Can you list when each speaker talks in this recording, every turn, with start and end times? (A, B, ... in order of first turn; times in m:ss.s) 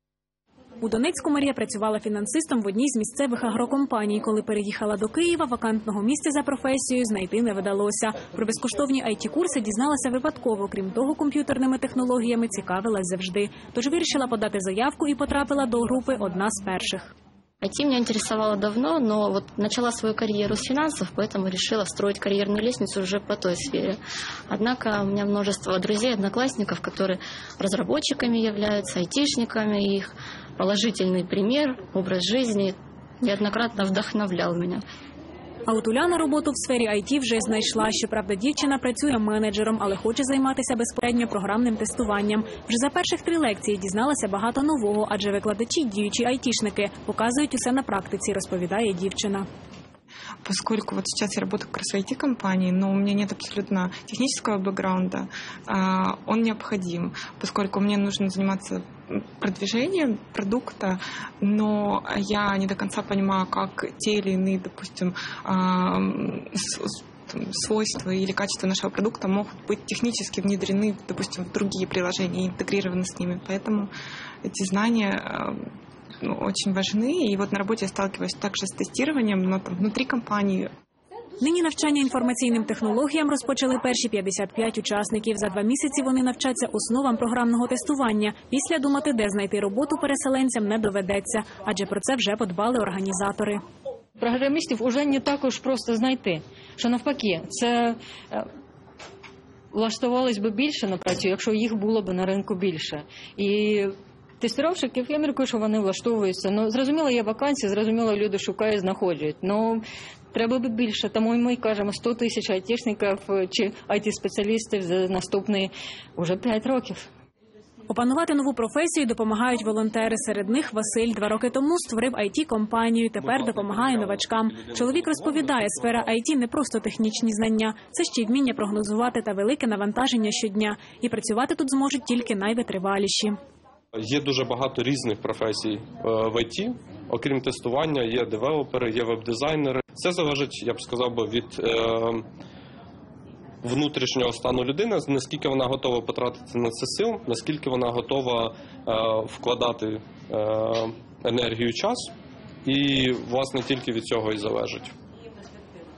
0:00.8-0:17.1 A
0:17.6-0:34.8 B
0:35.7-0:49.4 A
0:50.4-1:13.9 C
1:14.4-1:15.7 C
1:16.2-1:20.7 C
1:21.4-1:33.6 A
1:34.2-1:38.5 D
1:39.7-1:57.0 D
1:57.9-2:13.4 A
2:03.2-2:05.8 E
2:14.0-2:22.2 E
2:23.6-2:32.1 E
2:32.6-2:34.9 E